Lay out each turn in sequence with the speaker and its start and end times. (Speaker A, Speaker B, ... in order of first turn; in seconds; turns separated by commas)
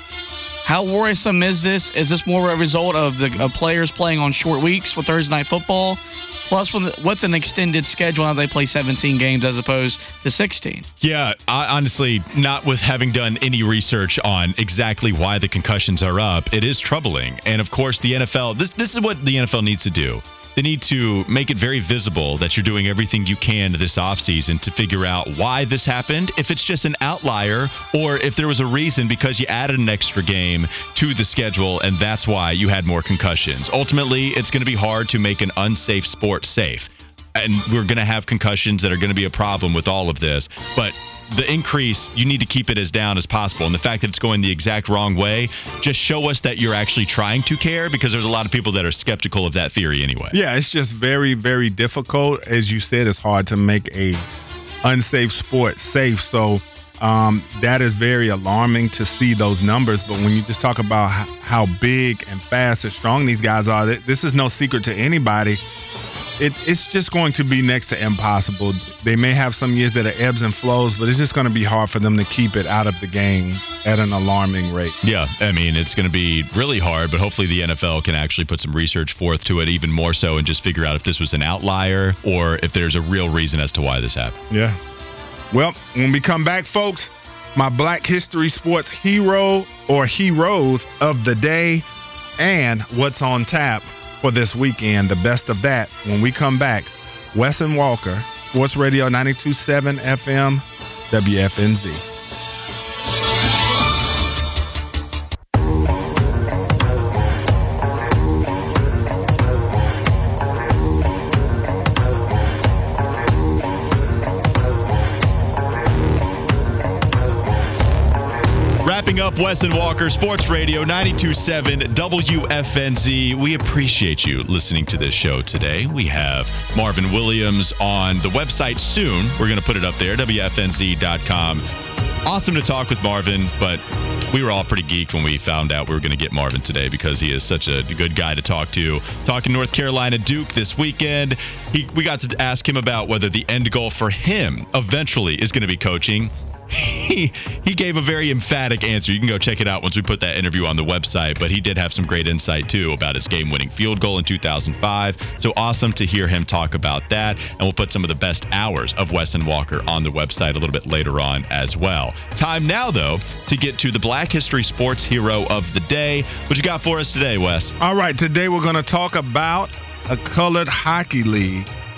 Speaker A: 0.6-10.8, Speaker B: 11.0-50.4, Speaker C: 50.3-54.2, Speaker C: 54.8-65.6, Speaker C: 66.4-75.0, Speaker B: 75.0-84.4, Speaker C: 84.5-84.8, Speaker C: 85.5-91.8, Speaker C: 92.4-102.0, Speaker B: 118.8-131.6, Speaker B: 132.2-167.7, Speaker C: 167.8-171.7